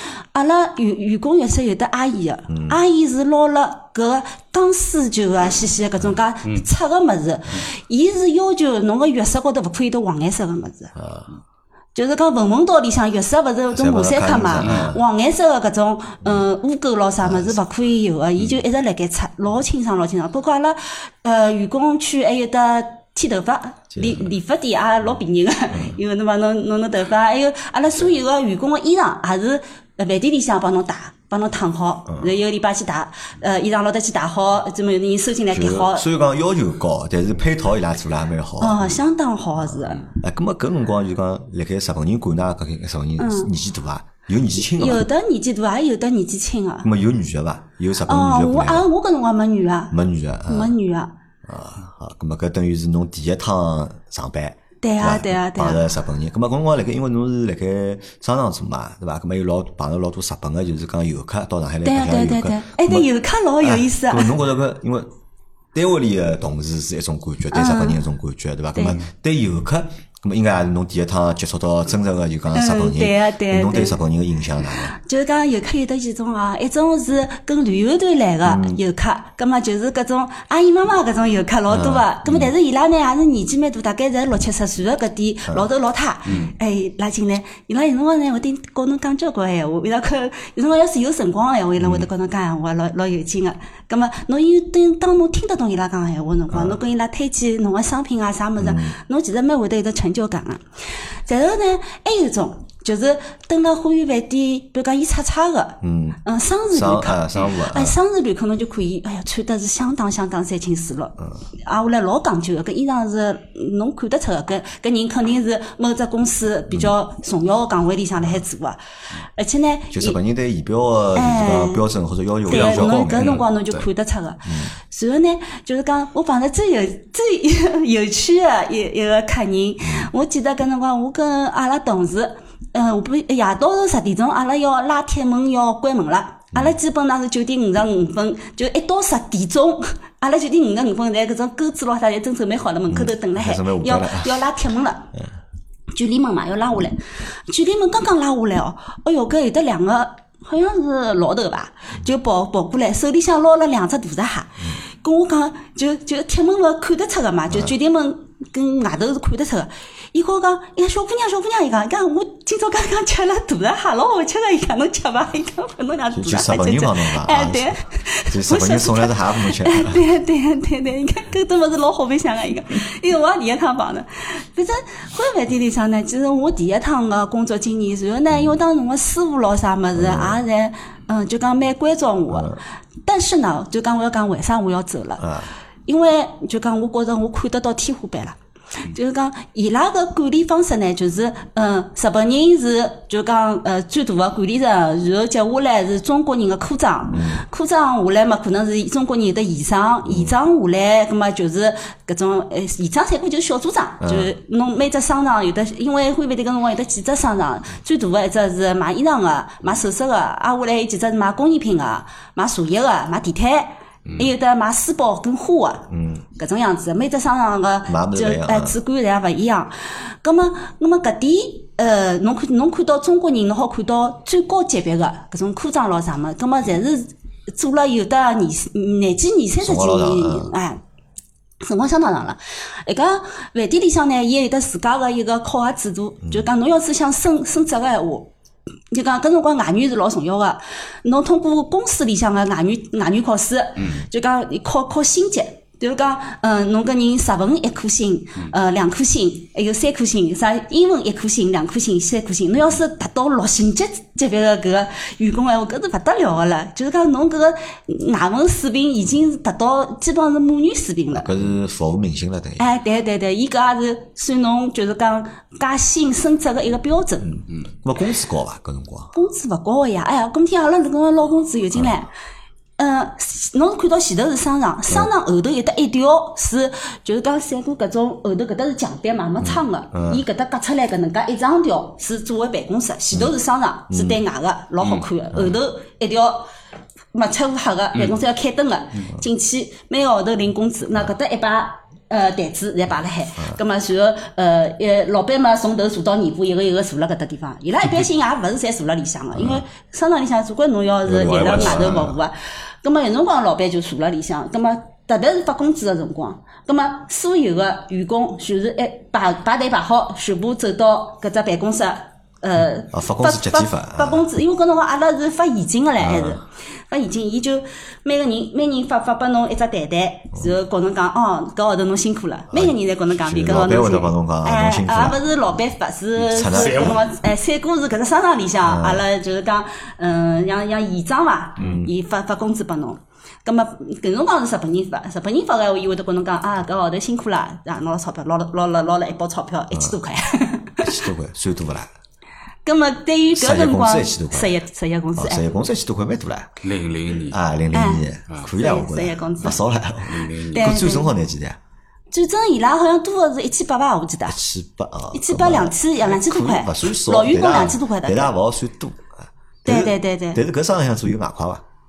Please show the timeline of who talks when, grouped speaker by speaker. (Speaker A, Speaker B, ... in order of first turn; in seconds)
Speaker A: 0.3-10.9, 11.9-36.0, 38.6-40.1, 43.2-43.5, 44.5-46.9, 48.0-49.9, 50.5-51.1, 54.8-55.8, 61.8-64.3, 67.5-68.0, 68.7-69.0, 72.5-74.0, 74.9-100.6, 101.2-120.2, 121.1-121.8, 122.5-145.1, 145.9-185.3, 185.9-230.8, 231.6-238.3, 238.9-261.3, 262.6-267.4, 269.1-272.1, 272.8-286.5, 287.1-341.0, 342.6-345.5, 347.7-349.6, 350.5-351.1, 352.1-354.4, 355.1-358.3, 359.6-360.4
Speaker B: 2.5-2.8, 10.9-11.3, 13.7-15.0, 17.2-17.5, 23.9-24.2, 35.5-39.0, 40.0-45.1, 46.8-48.9, 49.9-50.7, 51.4-63.1, 63.6-65.1, 65.7-74.9, 78.4-78.8, 81.7-82.5, 91.8-92.1, 96.5-96.8, 98.6-98.9, 105.8-106.2, 106.7-108.0, 119.9-123.4, 124.5-124.7, 129.8-130.1, 142.9-144.4, 166.1-167.7, 168.3-170.0, 179.9-180.4, 182.3-182.6, 185.2-185.5, 197.1-197.4, 200.1-200.3, 204.0-204.3, 215.9-216.2, 217.9-218.8, 229.6-230.5, 261.1-262.6, 267.2-269.1, 279.4-280.2, 283.9-284.2, 299.4-299.6, 301.1-302.1, 312.9-314.3, 316.0-316.4, 322.5-325.2, 326.2-327.0, 328.6-329.0, 331.6-331.9, 339.7-340.0, 340.8-341.9, 343.3-344.5, 345.2-346.5, 347.3-351.6, 354.3-361.6
Speaker C: 14.6-14.9, 122.5-123.8, 301.2-302.1, 326.4-327.0, 346.6-347.4, 350.1-350.8